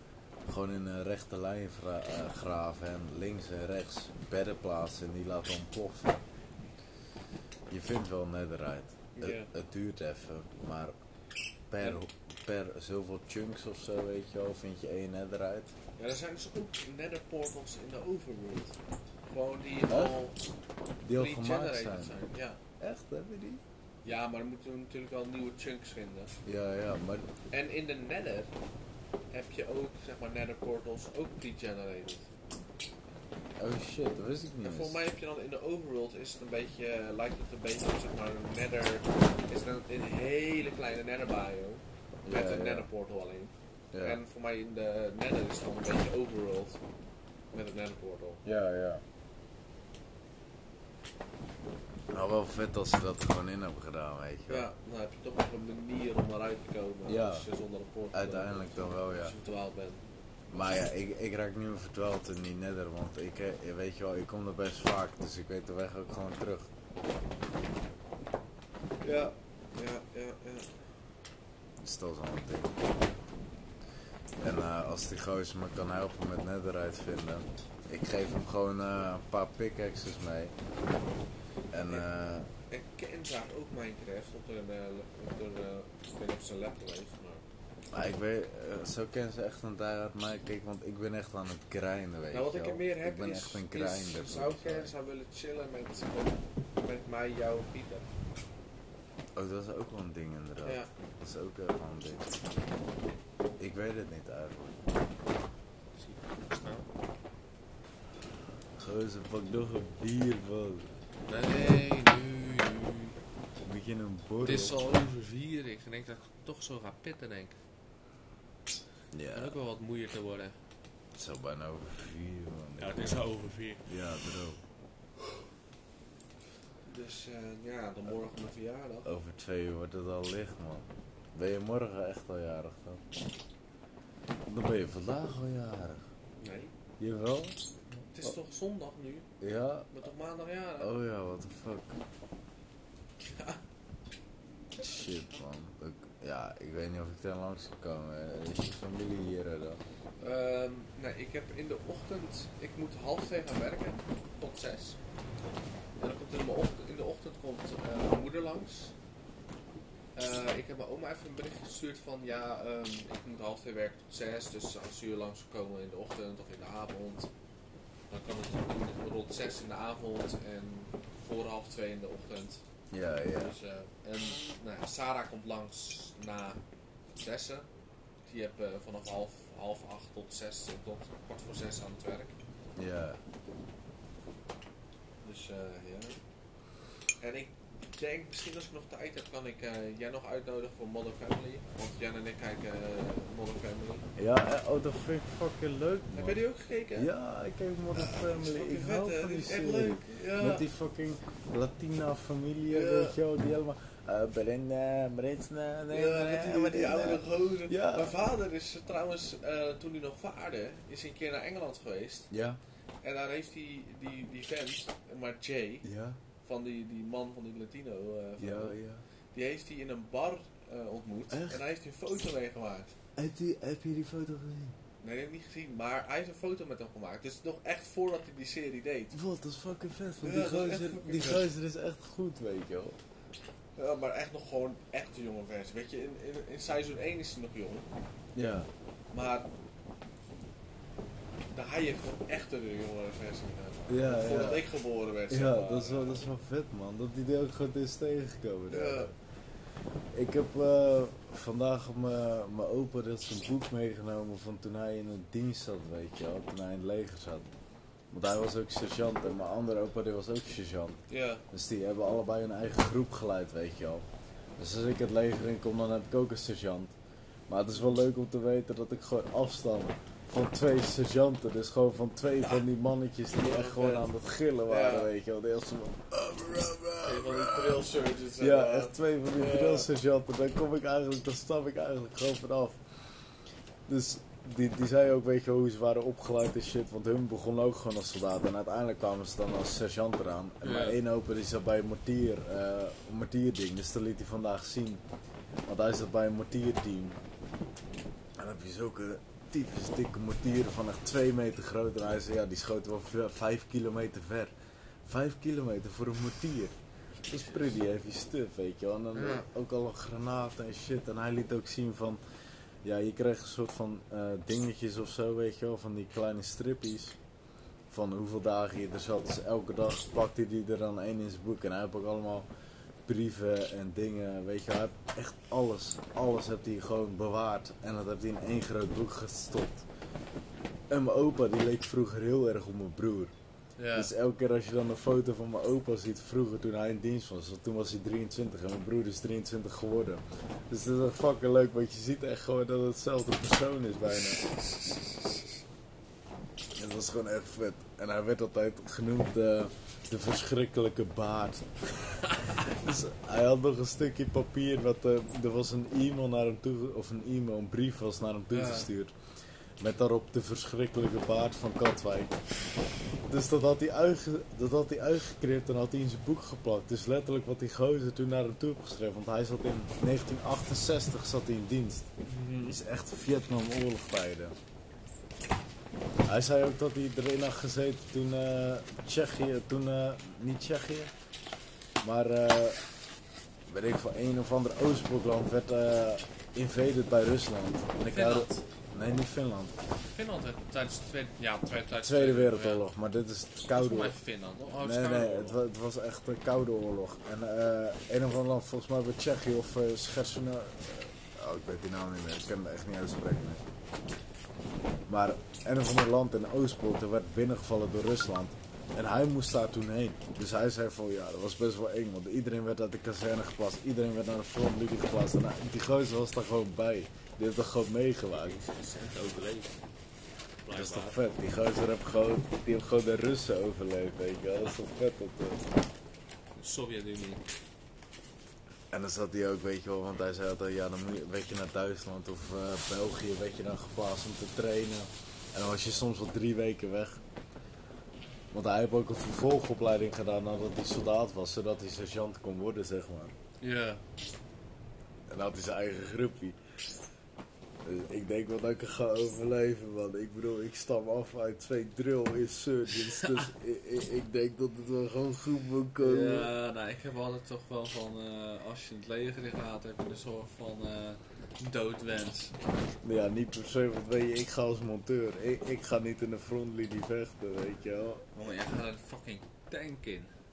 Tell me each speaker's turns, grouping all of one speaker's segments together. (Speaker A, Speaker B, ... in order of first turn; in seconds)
Speaker A: 0.5-6.2, 7.7-10.9, 11.7-15.7, 19.9-20.2, 21.0-22.2, 22.8-23.6, 26.4-27.3, 33.6-35.0, 42.2-42.9, 43.9-44.2, 48.4-49.0, 52.1-54.7, 57.0-57.5, 58.1-59.3, 60.5-66.7, 71.8-72.8, 74.4-80.5, 81.7-82.5, 87.9-94.9, 99.3-102.4, 103.6-104.9, 108.8-110.9, 113.6-114.8, 119.1-119.6, 121.1-123.2, 123.8-124.6, 129.0-133.0, 134.4-136.0, 137.0-137.6, 139.4-139.9, 140.8-142.0, 144.7-149.8, 172.9-173.5, 182.8-183.2, 194.2-208.1, 212.3-212.6, 215.8-216.2, 218.4-219.0, 221.3-221.6, 223.2-224.8, 229.1-233.0, 238.3-238.7, 243.9-244.7, 245.3-249.1, 250.1-257.5, 258.1-264.1, 264.6-266.9, 267.5-277.8, 278.4-282.8, 283.9-295.0, 295.7-297.2, 298.4-304.5, 305.0-306.8, 307.3-312.2, 312.8-317.2, 317.9-322.5, 323.1-329.9, 330.9-333.3, 333.9-344.4, 346.8-359.1, 359.8-362.4, 363.3-372.1, 372.6-374.6, 376.2-381.1, 382.0-382.8, 383.6-389.8, 392.0-394.1, 394.8-403.6, 405.1-418.6, 420.7-425.7, 428.9-437.2, 438.5-443.4, 445.3-446.6, 447.8-456.5, 463.0-468.2
Speaker B: 9.1-9.5, 16.0-18.8, 19.3-20.4, 21.1-22.6, 24.0-26.4, 27.5-28.5, 29.3-32.3, 34.6-46.8, 47.5-48.4, 54.5-60.0, 69.0-70.8, 82.7-87.4, 92.3-98.0, 100.6-100.9, 106.0-106.9, 111.3-113.2, 114.4-117.6, 119.3-120.6, 122.8-123.8, 126.8-129.1, 136.4-136.7, 138.1-139.3, 139.9-140.9, 143.2-143.6, 150.2-155.0, 156.0-158.9, 160.2-167.3, 168.1-172.6, 173.3-176.6, 177.2-177.7, 178.2-182.3, 185.2-186.2, 187.2-194.1, 196.1-197.1, 197.9-200.7, 202.7-203.2, 205.9-212.3, 213.0-215.8, 216.4-218.8, 219.3-222.9, 225.0-229.2, 230.2-231.4, 233.8-237.9, 239.1-239.5, 241.5-246.2, 248.7-249.1, 261.1-261.4, 273.4-274.1, 274.7-275.1, 277.0-279.9, 290.6-291.0, 307.3-307.8, 309.1-309.5, 333.8-334.1, 344.3-345.4, 358.5-358.9, 372.2-372.8, 388.1-388.6, 390.1-392.8, 393.7-395.6, 418.3-419.8, 420.6-421.2, 426.5-427.4, 443.6-444.0, 453.1-453.5, 456.0-462.6, 468.3-470.3